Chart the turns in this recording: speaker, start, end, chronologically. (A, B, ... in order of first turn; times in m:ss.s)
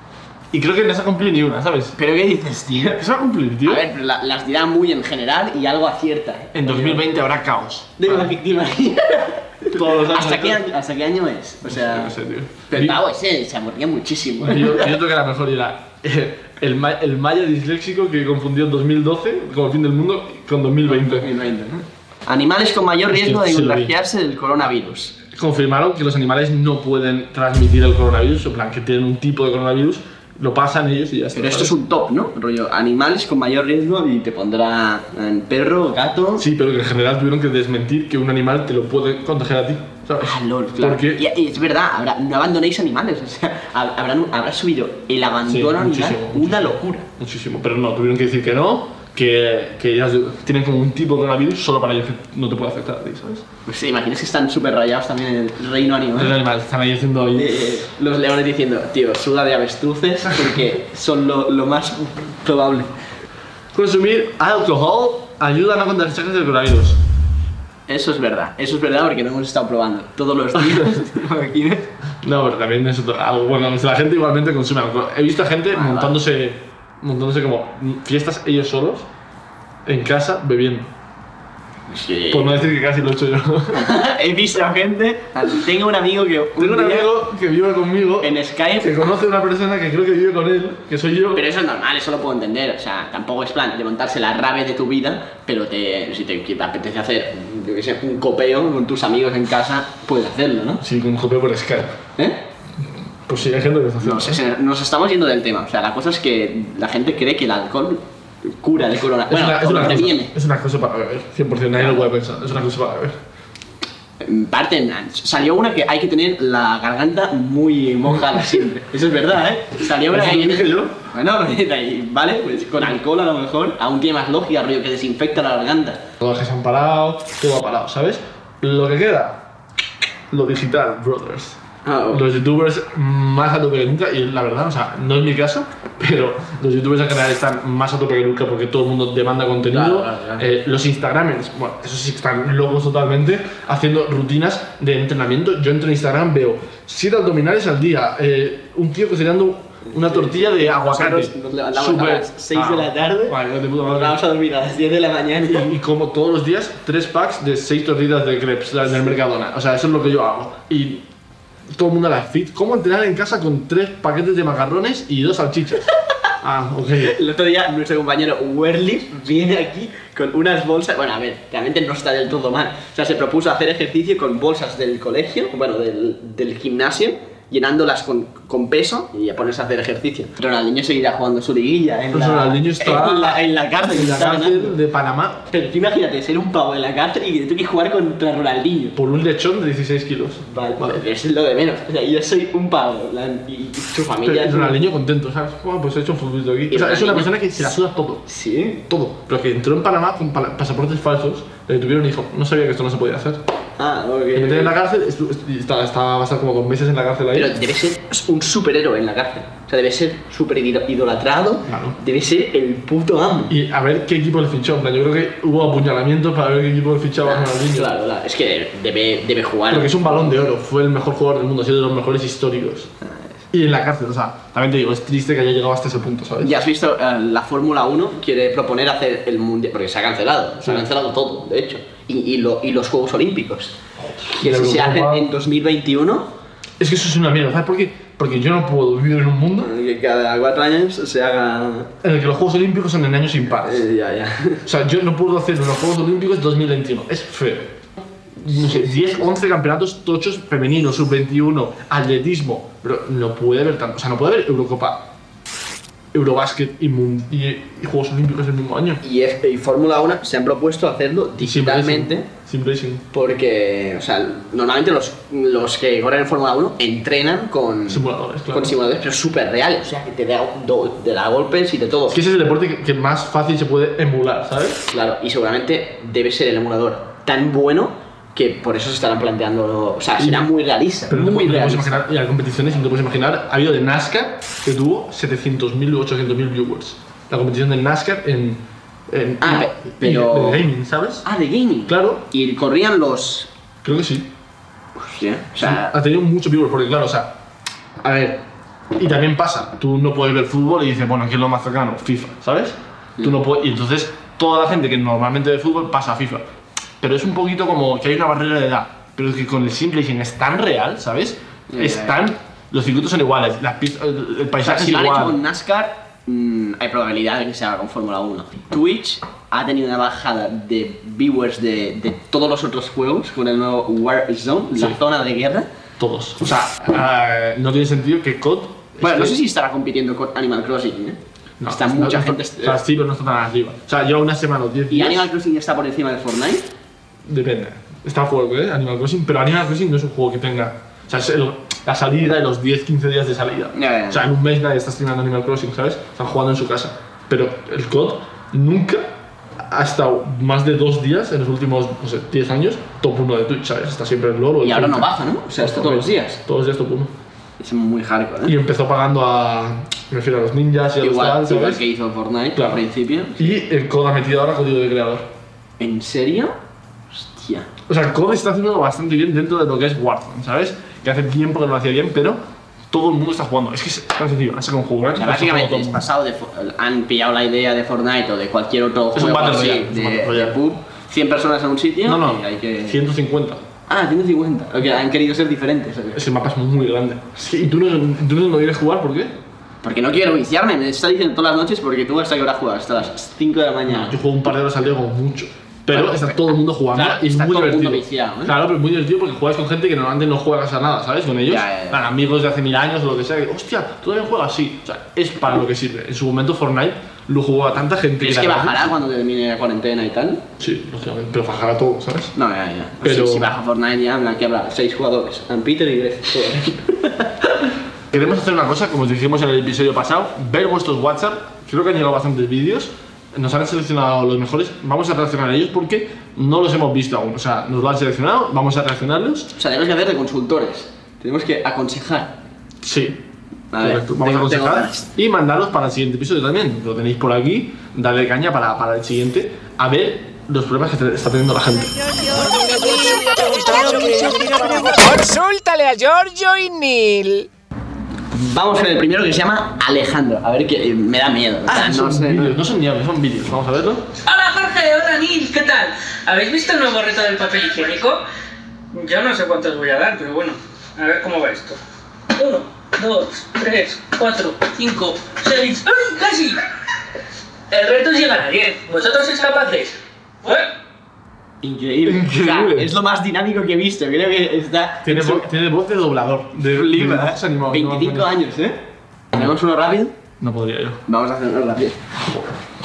0:00.5-0:02.0 A
0:02.0-0:03.0 B
0:03.0-0:03.8 A
0:03.6-0:07.0 B
0:06.5-0:08.3 A
0:08.0-0:12.1 B
0:09.7-0:10.6 A
0:11.6-0:13.0 A
0:12.7-0:14.9 B
0:14.4-0:21.3 A
0:20.9-0:25.2 B
0:23.1-0:23.9 A
0:25.3-0:31.8 A
0:31.3-0:36.4 B
0:36.4-0:41.2 A
0:40.2-0:47.0 B
0:45.4-0:53.4 A
0:53.7-0:56.3 B
0:56.2-0:57.6 A
0:57.3-1:02.9 B
1:03.7-1:07.0 A
1:07.9-1:11.9 B
1:10.6-1:11.0 A
1:12.2-1:19.1 A
1:15.7-1:16.1 B
1:19.8-1:20.9 A
1:21.9-1:22.6 B
1:22.3-1:23.9 A
1:23.7-1:27.1 B
1:26.6-1:31.4 A
1:28.2-1:29.1 B
1:31.3-1:40.8 B
1:40.8-1:42.0 A
1:42.2-1:42.4 B
1:43.3-1:44.4 A
1:44.0-1:50.3 B
1:49.3-1:53.2 A
1:51.8-1:52.1 B
1:54.2-2:06.0 B
2:00.1-2:01.0 A
2:06.2-2:09.4 A
2:10.3-2:11.6 A
2:11.8-2:12.2 B
2:12.1-2:34.2 A
2:19.7-2:20.4 B
2:29.9-2:35.7 B
2:35.5-2:41.0 A
2:41.7-2:45.8 A
2:46.4-2:47.2 A
2:47.0-3:04.8 B
3:02.1-3:05.5 A
3:05.5-3:09.0 B
3:08.9-3:11.0 A
3:10.5-3:14.8 B
3:14.2-3:18.2 A
3:16.7-3:17.3 B
3:18.3-3:18.8 B
3:18.8-3:23.4 A
3:23.8-3:24.7 B
3:24.3-3:27.5 A
3:27.3-3:33.5 B
3:31.7-3:32.0 A
3:33.5-3:37.9 A
3:37.2-3:40.3 B
3:39.7-3:42.9 A
3:43.0-3:43.3 B
3:43.5-3:46.6 A
3:46.4-3:53.7 B
3:54.1-3:55.3 A
3:54.3-3:56.3 B
3:56.8-3:59.7 A
3:59.6-4:01.9 B
4:02.0-4:03.8 A
4:03.6-4:04.6 B
4:04.6-4:07.8 A
4:08.4-4:15.1 A
4:08.5-4:08.8 B
4:16.1-4:19.0 A
4:19.0-4:22.3 B
4:21.4-4:23.0 A
4:23.1-4:32.2 B
4:27.9-4:28.8 A
4:32.1-4:34.8 A
4:34.9-4:42.0 B
4:40.2-4:40.5 A
4:41.1-4:51.2 A
4:49.4-4:50.6 B
4:51.2-4:53.5 B
4:51.9-4:52.2 A
4:53.8-4:54.3 A
4:55.0-4:55.9 B
4:55.6-4:57.3 A
4:58.0-4:58.4 A
4:59.0-5:06.5 A
5:07.0-5:15.4 A
5:11.7-5:12.2 B
5:14.6-5:25.7 B
5:26.0-5:29.4 A
5:29.0-5:32.8 B
5:31.6-5:35.3 A
5:34.9-5:36.7 B
5:37.2-5:49.1 A
5:43.7-5:44.2 B
5:49.6-5:57.1 A
5:54.6-5:56.4 B
5:57.6-5:58.5 B
5:58.4-6:01.8 A
6:01.0-6:03.6 B
6:02.5-6:02.8 A
6:03.4-6:05.3 A
6:05.8-6:06.6 B
6:07.1-6:07.7 B
6:07.9-6:16.0 A
6:15.2-6:23.0 B
6:19.1-6:20.6 A
6:22.0-6:23.7 A
6:23.9-6:26.2 B
6:26.1-6:29.3 A
6:29.8-6:34.2 B
6:33.9-6:48.9 A
6:35.9-6:38.5 B
6:41.5-6:42.1 B
6:48.2-6:50.4 B
6:50.6-6:52.3 A
6:52.3-6:57.6 B
6:53.0-6:53.5 A
6:58.1-7:09.5 A
7:09.6-7:12.4 B
7:12.8-7:13.2 A
7:13.7-7:15.1 B
7:13.8-7:21.9 A
7:22.3-7:27.5 C
7:28.3-7:32.6 B
7:31.7-7:34.1 A
7:34.2-7:38.2 D
7:38.9-7:41.8 D
7:42.3-7:46.6 D
7:47.7-7:50.7 D
7:51.6-7:55.5 B
7:52.0-7:52.9 A
7:55.0-7:58.3 A
7:56.7-7:58.8 B
7:59.3-8:00.1 B
8:00.4-8:01.0 A
8:01.1-8:02.0 B